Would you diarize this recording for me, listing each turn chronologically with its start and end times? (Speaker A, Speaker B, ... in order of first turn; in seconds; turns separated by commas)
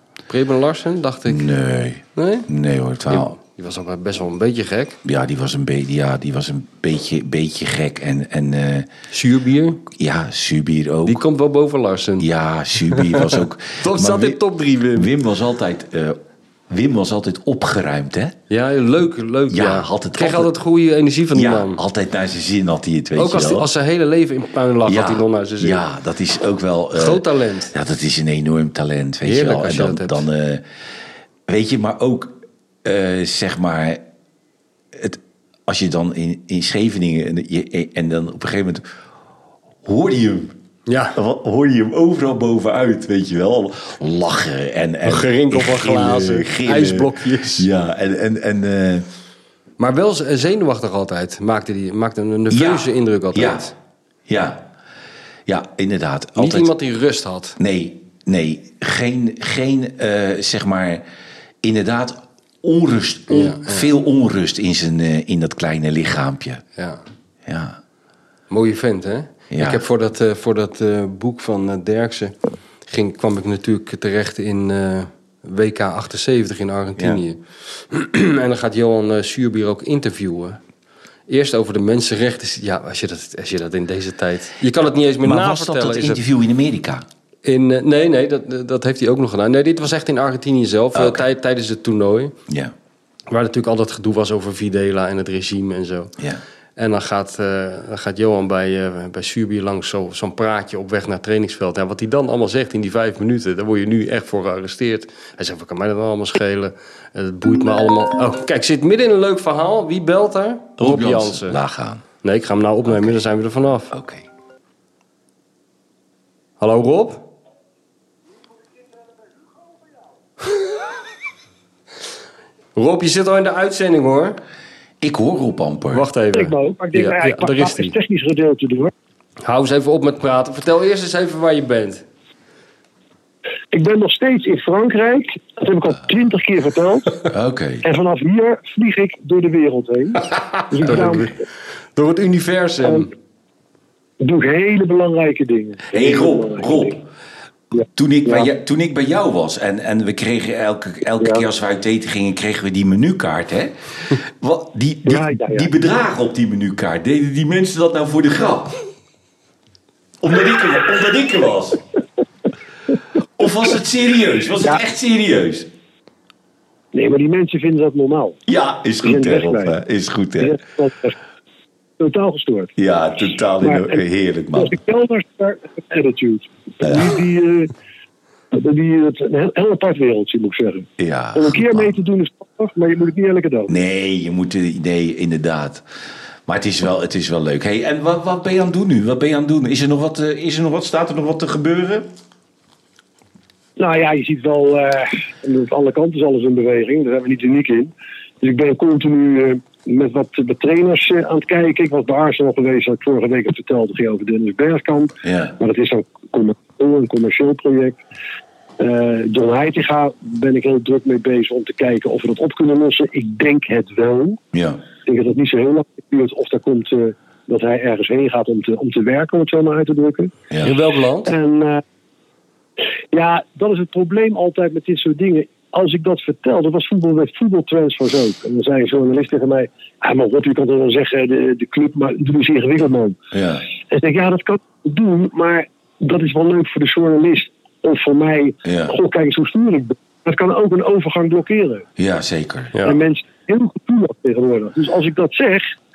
Speaker A: 0.3-1.5, Speaker B: 1.3-3.4, Speaker A: 2.1-2.5, Speaker A: 3.1-5.0, Speaker B: 5.0-8.9, Speaker A: 9.1-9.8, Speaker B: 9.9-11.2, Speaker A: 11.1-12.3, Speaker B: 12.2-14.4, Speaker A: 12.9-15.1, Speaker B: 14.9-16.2, Speaker B: 16.7-18.4, Speaker A: 18.5-21.8, Speaker B: 19.5-20.5, Speaker B: 21.3-23.7, Speaker A: 23.2-25.8, Speaker B: 24.9-30.6, Speaker A: 26.9-27.7, Speaker A: 29.2-30.2, Speaker B: 31.5-34.0, Speaker B: 34.9-38.8, Speaker B: 39.9-40.5, Speaker A: 40.9-41.2, Speaker B: 41.1-49.1, Speaker A: 45.0-47.7, Speaker A: 49.8-53.7, Speaker B: 52.5-53.7, Speaker B: 54.3-54.7, Speaker B: 55.5-56.7, Speaker A: 56.4-57.6, Speaker B: 57.6-61.0, Speaker B: 61.6-66.6, Speaker A: 63.3-63.9, Speaker A: 66.8-67.0, Speaker B: 67.5-67.8, Speaker A: 68.5-72.3, Speaker B: 69.5-69.8, Speaker A: 72.9-80.6, Speaker A: 81.3-86.2, Speaker B: 85.2-87.1, Speaker A: 87.5-92.3, Speaker B: 91.0-91.2, Speaker B: 92.5-92.7, Speaker A: 93.3-96.1, Speaker A: 96.8-111.6, Speaker B: 110.8-112.0, Speaker A: 112.2-113.9, Speaker B: 113.9-114.3, Speaker A: 116.6-117.3, Speaker A: 122.8-124.4, Speaker B: 125.0-126.1, Speaker A: 125.9-128.0, Speaker C: 126.3-128.9, Speaker A: 129.4-132.1, Speaker C: 133.7-137.2, Speaker B: 137.3-137.9, Speaker C: 137.8-141.4, Speaker A: 140.3-141.3, Speaker A: 142.0-143.1, Speaker C: 144.2-147.0, Speaker B: 145.9-147.0, Speaker C: 147.7-148.5, Speaker B: 147.9-158.8, Speaker C: 155.1-155.7, Speaker B: 160.2-161.8, Speaker B: 163.4-165.7, Speaker C: 166.9-168.4, Speaker B: 168.5-170.6, Speaker C: 169.0-169.8, Speaker C: 170.4-171.2, Speaker C: 172.0-172.7, Speaker B: 172.8-174.8, Speaker C: 173.6-174.0, Speaker C: 174.6-177.7, Speaker B: 176.8-177.2, Speaker C: 178.5-183.8, Speaker B: 181.0-181.9, Speaker B: 183.7-185.8, Speaker B: 186.5-192.1, Speaker C: 193.8-208.0, Speaker B: 205.2-205.6, Speaker C: 208.8-214.4, Speaker B: 214.5-214.8, Speaker C: 215.1-220.3, Speaker A: 220.6-221.3, Speaker C: 221.3-221.8, Speaker C: 223.1-233.2, Speaker B: 233.3-233.7, Speaker C: 233.9-241.8, Speaker B: 238.7-238.9, Speaker B: 242.0-242.8, Speaker A: 242.7-243.0, Speaker C: 242.8-245.7